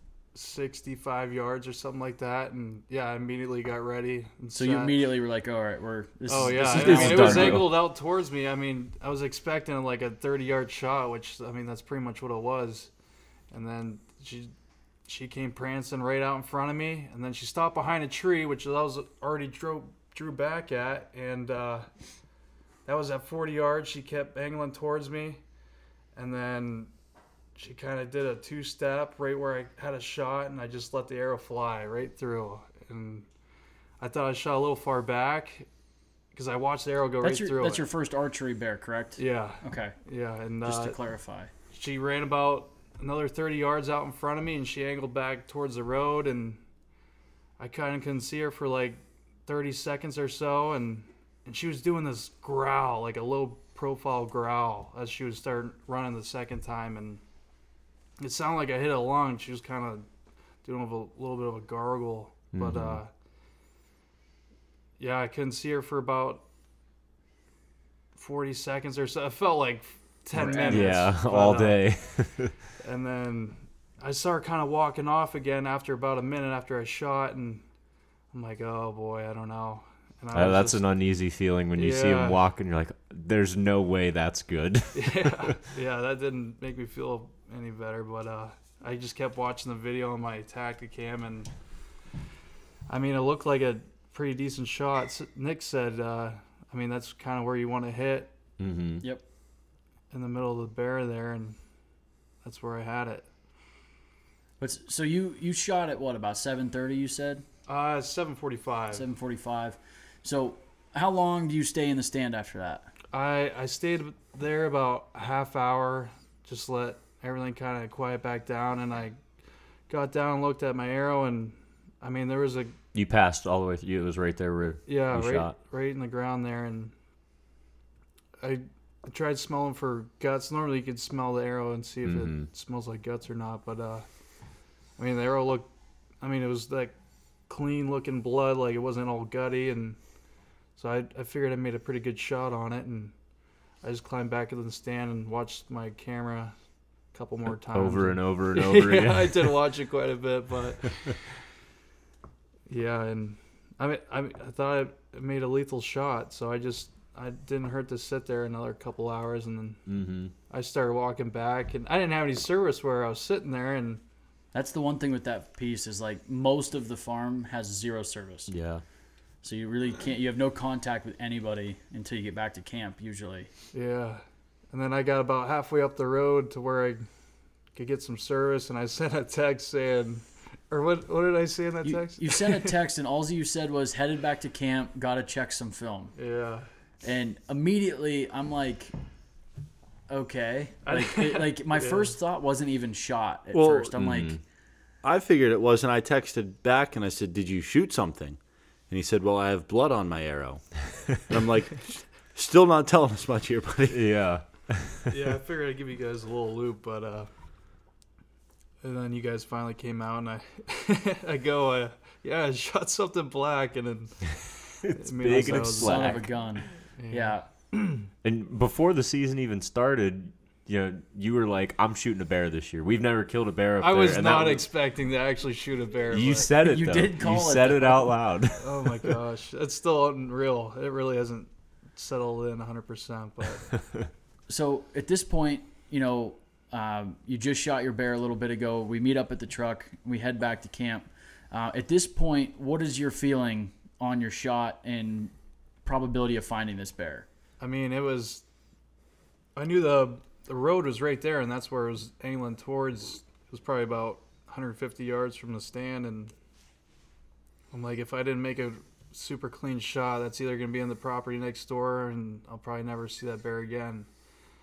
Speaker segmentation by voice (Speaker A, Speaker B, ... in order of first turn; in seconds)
Speaker A: 0.3-5.1, 6.3-12.9, 13.5-14.5, 15.1-21.9, 22.8-25.4, 26.1-26.9, 27.6-33.2, 34.0-35.7, 36.3-37.9, 39.2-41.0, 41.7-46.6, 47.6-57.2, 58.2-60.0, 60.6-63.1, 65.0-66.4, 68.2-71.9, 72.8-77.6, 78.3-80.8, 81.7-82.4, 84.9-91.5, 92.9-98.3, 100.1-101.6, 102.4-103.2, 107.7-109.1, 113.1-119.2, 119.9-122.7, 124.9-126.9, 128.4-134.1, 135.0-135.7, 136.2-136.9, 137.5-140.0, 140.8-143.1, 143.8-146.5, 147.1-151.2, 152.7-159.8, 160.5-164.0, 173.7-177.1, 177.7-182.7, 186.2-186.7, 190.8-192.1, 205.1-207.3, 208.8-216.3, 217.0-218.1, 223.8-226.5, 228.6-233.7, 247.6-248.4, 249.6-256.3, 257.7-264.1
Speaker B: 4.5-7.7, 37.2-39.9, 40.6-41.5, 70.3-71.0, 104.6-107.4, 108.9-112.9, 164.5-168.5, 169.4-173.5, 181.8-186.1, 187.0-188.9, 190.1-194.4, 215.8-217.4, 226.6-228.1, 234.5-245.3, 245.8-247.3
Speaker C: 6.6-7.8, 62.5-63.0, 70.4-72.5, 80.3-85.5, 98.6-99.0, 122.9-125.5, 132.0-132.5, 147.5-149.6, 159.9-160.3, 168.5-168.8, 194.0-194.4, 203.9-205.1, 214.8-216.3, 218.2-224.7, 226.1-229.1
Speaker D: 193.5-193.9, 195.0-198.4, 198.9-200.6, 201.2-204.0